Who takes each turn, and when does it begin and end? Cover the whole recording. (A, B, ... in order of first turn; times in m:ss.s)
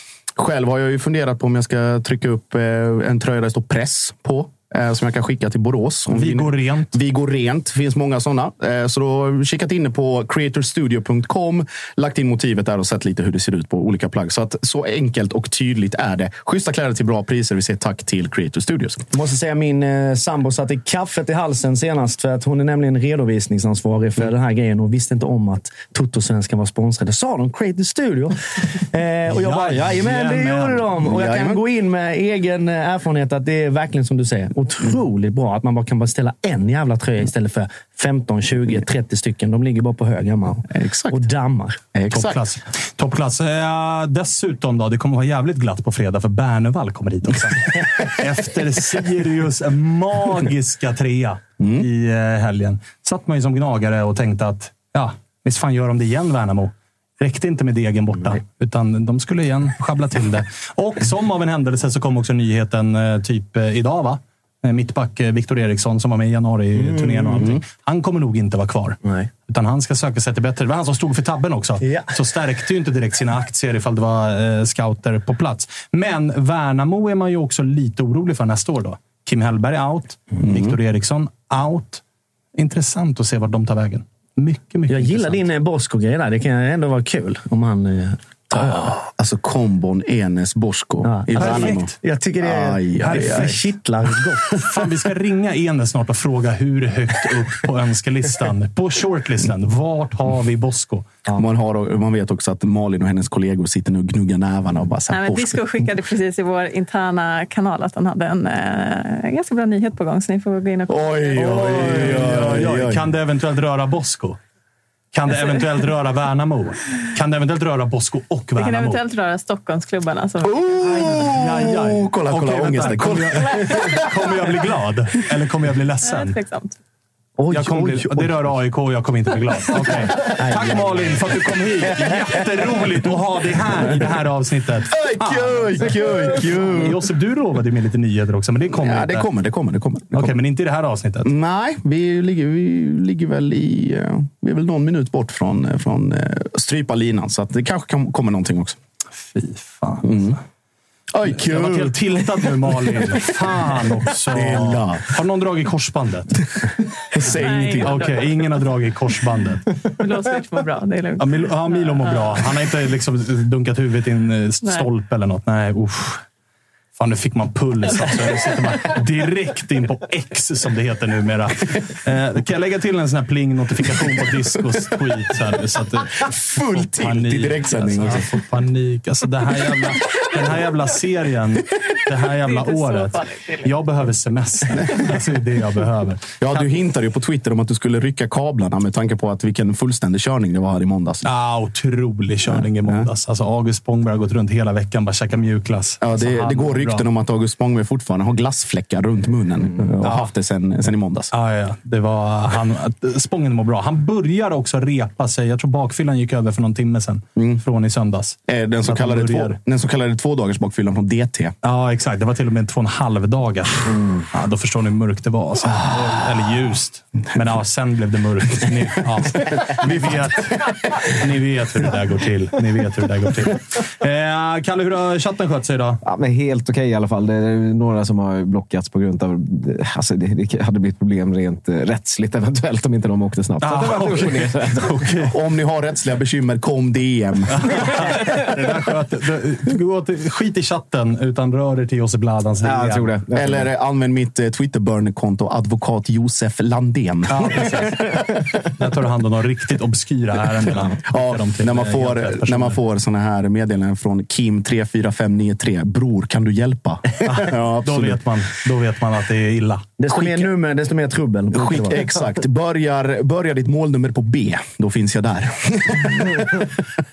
0:00.4-0:19.1 A
0:06.1-0:07.0 B
0:19.1-0:41.8 C
0:29.3-0:30.9 B
0:31.0-0:31.6 A
0:40.7-0:41.2 A
0:41.9-0:42.4 A
0:42.1-1:22.0 B
0:51.6-0:51.9 A
1:06.9-1:07.5 C
1:11.8-1:12.1 C
1:20.4-1:20.8 A
1:22.6-1:25.4 B
1:24.9-1:29.0 C
1:28.5-1:33.6 A
1:31.0-1:34.9 C
1:31.4-1:31.9 B
1:33.0-1:33.6 B
1:34.6-1:41.1 B
1:41.4-1:45.9 A
1:45.1-1:52.0 D
1:50.9-1:53.1 A
1:51.4-1:54.4 B
1:55.1-1:59.0 B
1:58.6-2:00.8 D
2:00.4-2:04.3 A
2:00.9-2:06.4 B
2:06.0-2:06.8 D
2:07.4-2:08.5 A
2:07.5-2:19.3 B
2:10.0-2:11.4 A
2:11.9-2:12.2 A
2:14.9-2:17.0 A
2:18.7-2:20.4 A
2:20.1-2:21.3 B
2:21.2-2:28.8 A
2:29.3-2:30.4 B
2:30.0-2:30.4 A
2:31.1-2:33.6 A
2:31.3-2:36.4 B
2:34.3-2:35.0 A
2:37.1-2:38.1 A
2:37.3-2:39.7 B
2:37.3-2:38.5 D
2:39.9-2:42.5 D
2:41.2-2:46.2 B
2:44.6-2:44.9 D
2:47.0-3:06.7 B
2:56.2-2:58.4 A
3:02.4-3:03.8 D
3:06.4-3:11.3 A
3:11.2-3:17.0 B
3:12.5-3:13.1 A
3:16.0-3:21.3 A
3:20.0-3:20.3 B
3:21.3-3:29.6 B
3:28.5-3:31.5 A
3:31.6-3:46.0 B
3:39.8-3:41.0 A
3:46.0-3:55.0 E
3:53.6-3:55.3 B
3:54.8-3:58.2 A
3:57.5-4:03.1 B
4:02.6-4:03.7 E
4:03.3-4:08.4 A
4:07.3-4:08.2 B
4:08.8-4:12.8 B
4:11.0-4:18.2 A
4:17.3-4:19.9 B
4:20.0-4:22.2 C
4:20.1-4:20.5 A
4:21.5-4:26.6 A